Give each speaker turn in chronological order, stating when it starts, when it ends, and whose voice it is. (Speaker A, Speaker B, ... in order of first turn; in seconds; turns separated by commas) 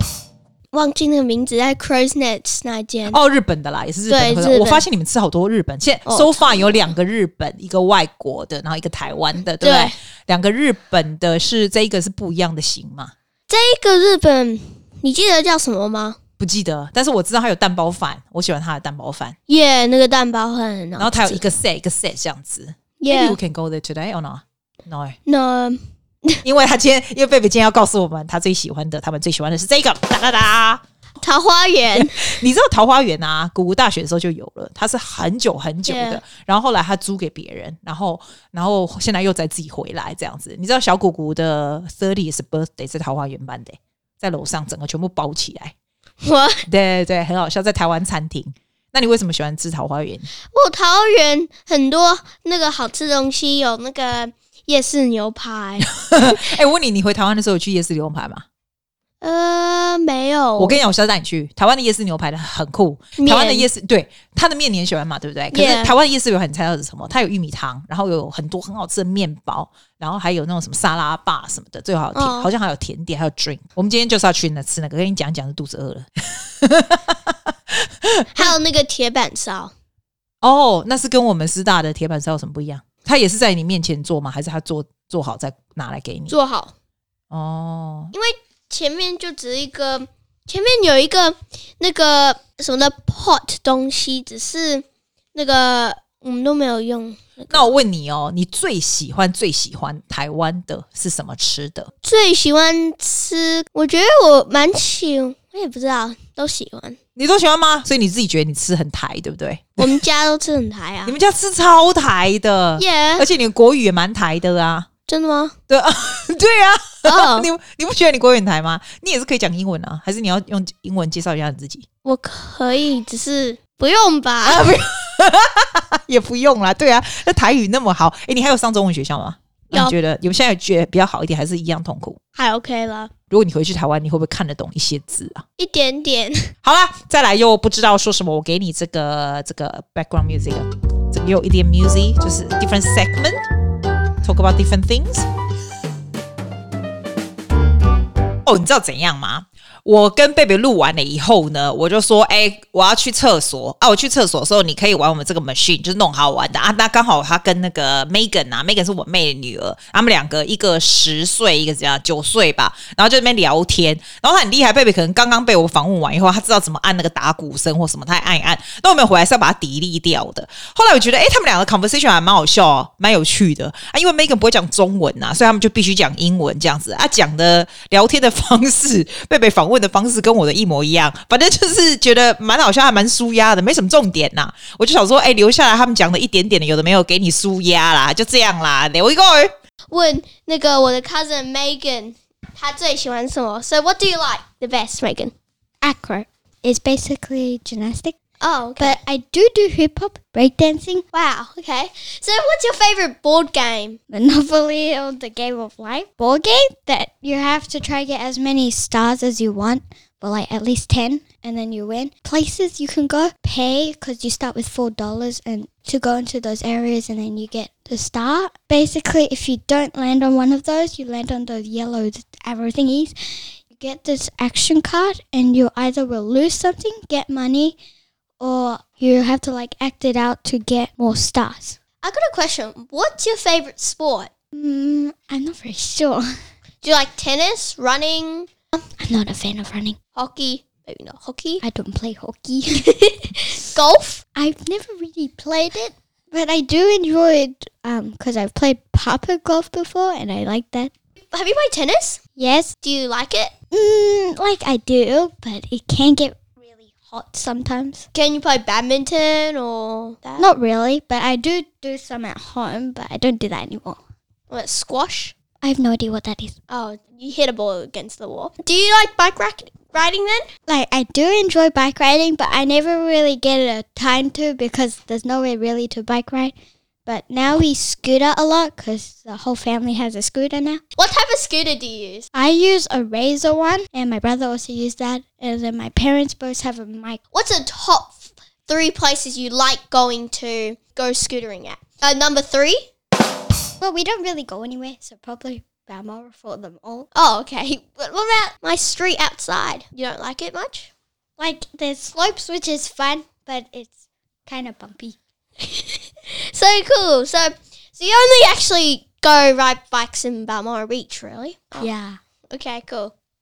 Speaker A: 0.7-3.2, Speaker B: 3.1-13.1, Speaker A: 4.1-4.8, Speaker A: 6.0-6.9, Speaker A: 9.6-9.9, Speaker A: 13.5-16.2, Speaker B: 16.4-19.4, Speaker A: 19.5-21.5, Speaker B: 21.0-25.2, Speaker A: 23.0-23.4, Speaker A: 25.2-26.4, Speaker B: 26.4-30.8, Speaker A: 31.2-32.2, Speaker B: 31.9-45.7, Speaker A: 35.9-36.2, Speaker A: 46.2-46.6, Speaker B: 46.7-50.3, Speaker A: 50.5-56.5, Speaker B: 55.8-58.4, Speaker A: 59.2-60.8, Speaker B: 60.6-78.5, Speaker A: 63.2-63.7, Speaker A: 65.5-66.0, Speaker A: 72.1-72.5, Speaker A: 78.3-79.7, Speaker B: 80.4-86.3, Speaker A: 86.3-86.7, Speaker B: 87.3-88.1, Speaker A: 88.1-97.7, Speaker B: 97.5-101.9, Speaker A: 102.0-107.0, Speaker B: 107.2-109.9, Speaker A: 109.8-111.2, Speaker B: 111.0-114.9, Speaker A: 112.8-113.3, Speaker A: 115.1-115.5, Speaker B: 115.7-121.8, Speaker A: 117.0-117.5, Speaker A: 122.0-124.7, Speaker B: 124.4-132.2, Speaker A: 132.3-133.1, Speaker B: 133.3-135.4, Speaker A: 135.6-136.5, Speaker B: 136.6-143.4, Speaker B: 144.2-145.3, Speaker B: 148.4-189.5, Speaker A: 189.9-195.3, Speaker C: 195.8-198.2, Speaker A: 198.4-199.0, Speaker C: 198.8-201.0, Speaker A: 201.1-204.0, Speaker C: 204.1-223.1, Speaker C: 223.7-227.8, Speaker C: 228.4-231.8, Speaker A: 232.0-234.3, Speaker C: 234.5-236.3, Speaker A: 236.8-238.5, Speaker C: 239.0-240.0, Speaker A: 240.1-241.6, Speaker C: 241.6-242.9, Speaker A: 243.0-244.2, Speaker C: 244.3-250.9, Speaker A: 251.2-252.2, Speaker C: 252.4-252.7, Speaker A: 252.8-253.5, Speaker C: 253.7-258.1, Speaker A: 258.1-260.5, Speaker C: 260.4-264.0, Speaker A: 264.5-265.3, Speaker C: 265.6-266.6, Speaker A: 266.7-270.5, Speaker C: 270.7-276.5, Speaker C: 277.1-280.8, Speaker A: 280.9-282.3, Speaker C: 282.3-287.2, Speaker A: 287.3-292.9, Speaker C: 293.8-297.1, Speaker A: 297.1-300.9, Speaker C: 301.4-305.2, Speaker A: 305.6-311.9, Speaker C: 311.8-312.2, Speaker A: 312.5-313.1